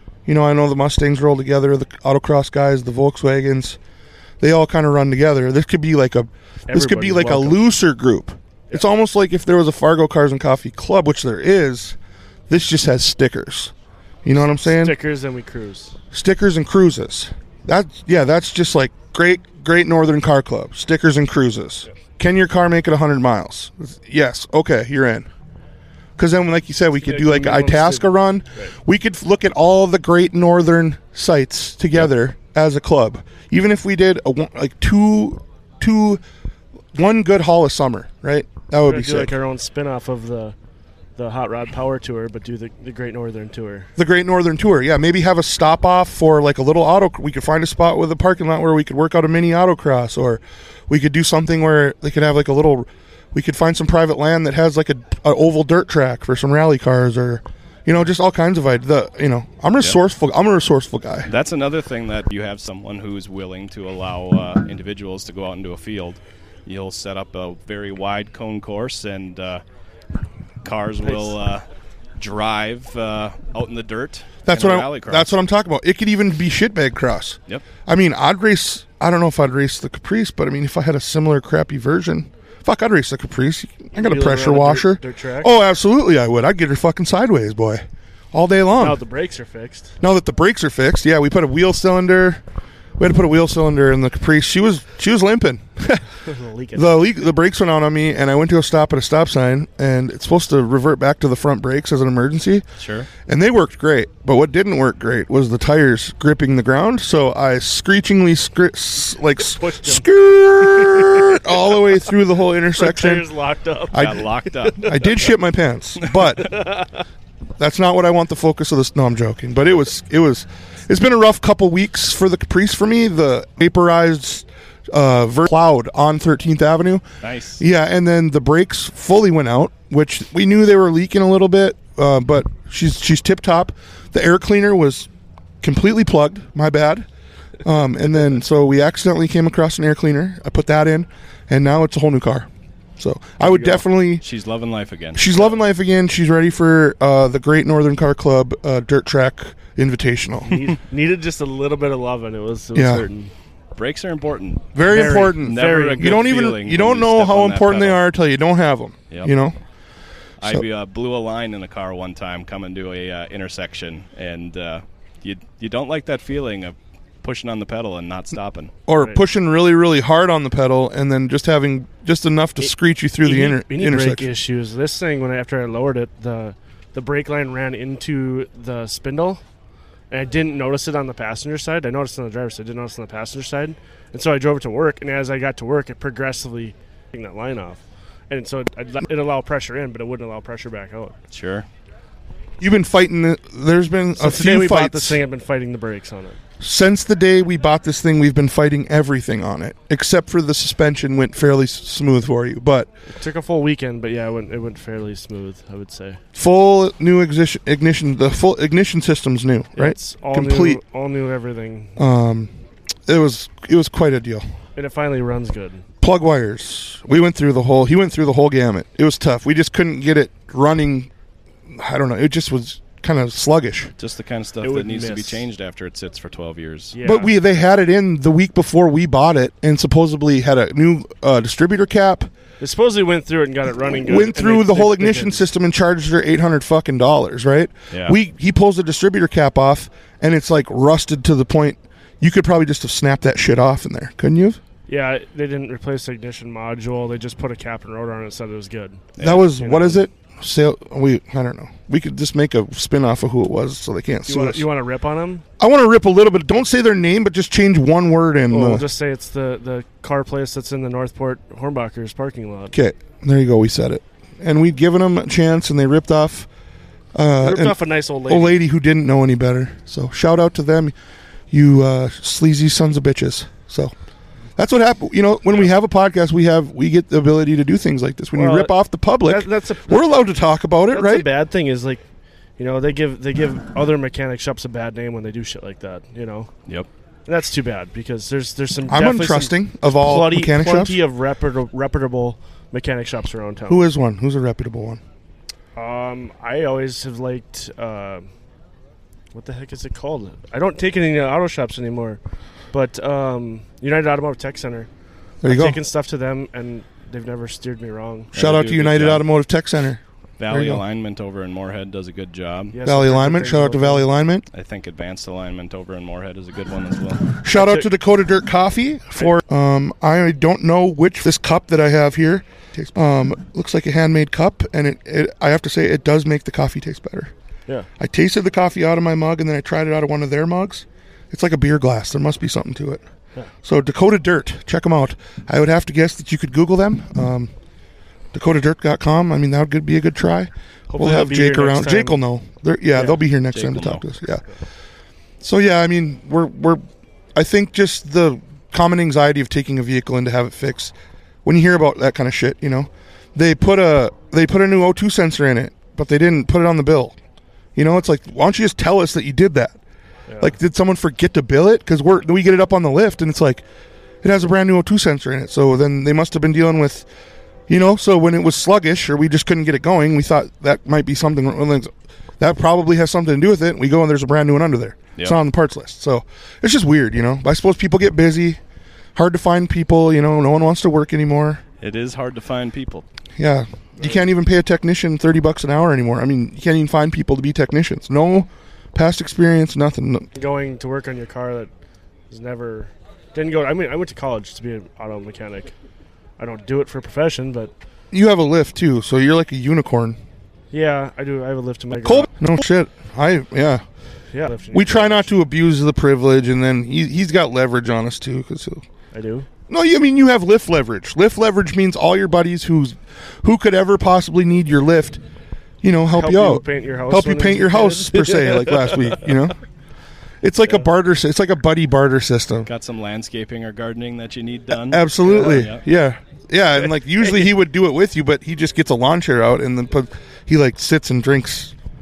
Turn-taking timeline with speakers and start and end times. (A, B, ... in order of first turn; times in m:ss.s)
0:00.3-0:03.8 A
0:04.4-0:12.0 A
0:06.7-0:07.6 B
0:12.5-0:13.7 A
0:14.2-0:15.0 A
0:14.6-0:16.0 B
0:16.1-0:25.3 A
0:26.2-0:36.2 A
0:27.0-0:28.8 B
0:36.9-0:39.3 A
0:38.8-0:40.6 B
0:41.2-0:43.9 B
0:44.0-1:01.3 A
1:01.3-1:09.6 C
1:10.6-1:11.6 C
1:12.2-1:15.4 C
1:14.4-1:29.0 A
1:23.9-1:25.5 B
1:28.8-1:29.9 B
1:30.0-1:32.4 A
1:33.0-1:36.0 A
1:36.2-1:37.0 B
1:36.8-1:42.6 A
1:42.8-1:43.1 C
1:43.2-1:53.3 A
1:49.4-1:51.6 B
1:52.7-1:55.0 B
1:53.9-1:56.5 A
1:53.9-1:54.9 C
1:56.4-1:56.9 B
1:57.6-2:07.0 A
2:07.2-2:07.6 C
2:07.6-2:15.1 A
2:15.6-2:17.1 A
2:17.6-2:24.2 A
2:23.4-2:23.8 B
2:24.2-2:25.3 C
2:25.2-2:30.6 A
2:30.5-2:33.3 B
2:32.7-2:33.0 A
2:33.8-2:38.0 C
2:34.7-2:39.6 A
2:34.9-2:36.4 B
2:40.4-2:48.7 C
2:48.9-2:54.2 A
2:49.0-2:49.2 B
2:52.6-2:59.4 B
3:00.1-3:11.2 B
3:11.3-3:11.7 C
3:12.6-3:15.2 A
3:14.2-3:16.4 B
3:16.6-3:22.9 A
3:23.1-3:26.2 B
3:26.4-3:30.8 A
3:29.8-3:32.0 B
3:32.0-3:32.5 A
3:33.1-3:34.5 A
3:34.8-3:35.9 B
3:36.0-3:41.1 A
3:41.7-3:43.9 A
3:44.0-3:47.0 C
3:44.6-3:45.4 B
3:46.9-3:47.3 B
3:47.0-3:52.3 A
3:52.6-3:55.4 B
3:53.8-4:04.6 A
3:57.9-3:58.2 C
4:04.9-4:10.0 B
4:09.2-4:09.5 C
4:09.2-4:14.7 A
4:14.3-4:15.4 B
4:15.6-4:18.9 A
4:18.5-4:22.7 B
4:22.7-4:26.5 A
4:27.2-4:30.9 A
4:27.4-4:28.6 B
4:31.5-4:33.9 A
4:34.6-4:41.3 A
4:38.3-4:38.7 B
4:39.2-4:40.2 B
4:40.9-4:42.0 B
4:42.6-4:46.5 B
4:47.3-4:53.8 B
4:48.9-4:51.0 A
4:53.7-4:55.0 A
4:55.8-4:58.3 B
4:59.3-5:02.2 B
5:02.7-5:04.9 B
5:05.4-5:05.8 A
5:05.4-5:08.3 B
5:08.3-5:10.8 A
5:08.4-5:09.3 C
5:10.4-5:12.8 C
5:12.7-5:14.1 B
5:12.8-5:14.5 A
5:14.5-5:17.3 C
5:17.4-5:27.3 A
5:17.5-5:17.9 B
5:28.0-5:33.0 A
5:33.6-5:37.5 A
5:38.3-5:44.4 A
5:40.9-5:42.2 B
5:42.9-5:43.2 B
5:43.5-5:44.0 C
5:45.4-5:46.8 A
5:47.4-5:50.9 A
5:51.4-5:57.2 A
5:57.8-5:59.8 A
6:00.3-6:00.5 B
6:00.4-6:03.6 A
6:04.2-6:07.1 A
6:07.7-6:18.6 A
6:19.2-6:21.6 A
6:21.8-6:23.1 C
6:23.4-6:30.3 A
6:30.4-6:31.7 B
6:32.3-6:35.7 B
6:36.4-6:37.7 B
6:38.1-6:40.2 A
6:40.7-6:42.3 B
6:42.0-6:43.8 A
6:44.3-6:45.3 B
6:44.7-6:48.8 A
6:49.1-6:49.5 B
6:49.7-6:55.2 A
6:55.8-6:59.6 A
6:56.1-6:59.0 B
7:00.4-7:02.7 A
7:02.7-7:05.8 C
7:04.9-7:11.7 A
7:05.2-7:05.6 B